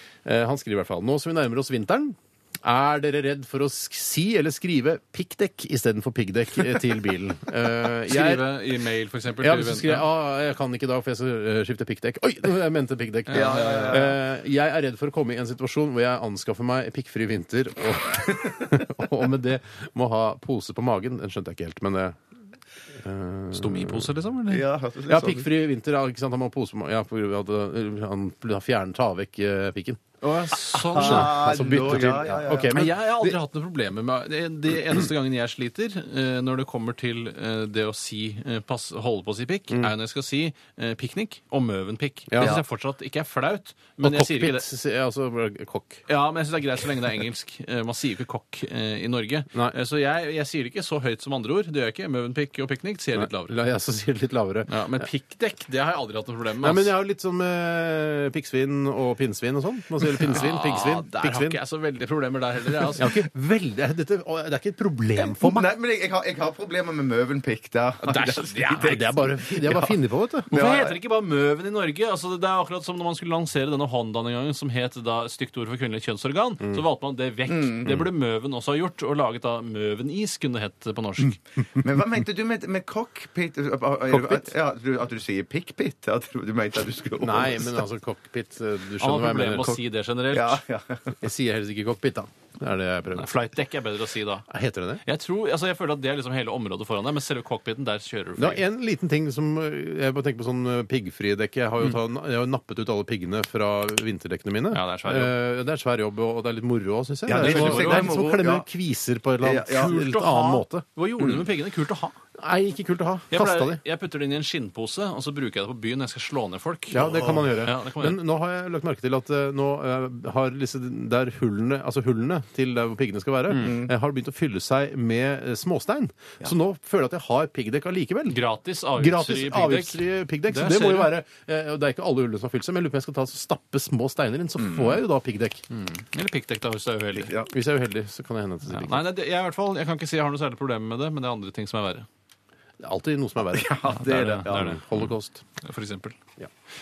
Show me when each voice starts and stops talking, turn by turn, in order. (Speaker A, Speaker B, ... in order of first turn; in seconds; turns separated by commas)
Speaker A: 0.2-8.4, Speaker B: 8.1-10.1, Speaker A: 9.4-22.2, Speaker B: 13.3-14.1, Speaker C: 13.3-14.2, Speaker A: 22.9-24.1, Speaker B: 23.5-24.6, Speaker C: 24.5-25.5, Speaker A: 25.1-30.0, Speaker B: 30.2-31.5, Speaker C: 30.7-32.9, Speaker A: 30.9-33.4, Speaker B: 32.7-44.6, Speaker A: 42.3-42.6, Speaker A: 44.0-46.0, Speaker B: 46.1-53.5, Speaker A: 53.1-55.1, Speaker B: 54.7-56.9, Speaker A: 56.6-61.6, Speaker B: 60.1-63.1, Speaker A: 63.0-65.7, Speaker C: 65.2-69.9, Speaker B: 68.0-69.0, Speaker A: 68.5-70.5, Speaker B: 70.5-81.4, Speaker C: 70.5-71.0, Speaker C: 77.5-78.0, Speaker C: 81.8-87.8, Speaker A: 87.2-89.8, Speaker B: 89.0-90.6, Speaker C: 90.3-91.2, Speaker A: 91.2-93.3, Speaker B: 93.1-94.5, Speaker A: 94.5-95.0, Speaker B: 95.0-98.6, Speaker A: 98.4-110.8, Speaker B: 104.7-105.3, Speaker C: 107.3-108.7, Speaker B: 107.3-108.1, Speaker C: 109.4-110.0, Speaker B: 109.7-112.2, Speaker A: 112.4-113.8, Speaker B: 113.3-118.2, Speaker A: 116.9-128.4, Speaker C: 117.0-117.5, Speaker C: 123.5-123.9, Speaker B: 128.3-131.1, Speaker A: 128.9-135.6, Speaker C: 134.6-135.0, Speaker B: 135.7-137.3, Speaker C: 137.2-137.5, Speaker A: 137.5-139.0, Speaker B: 138.7-142.1, Speaker A: 142.8-145.4, Speaker C: 143.5-144.8, Speaker B: 143.9-146.2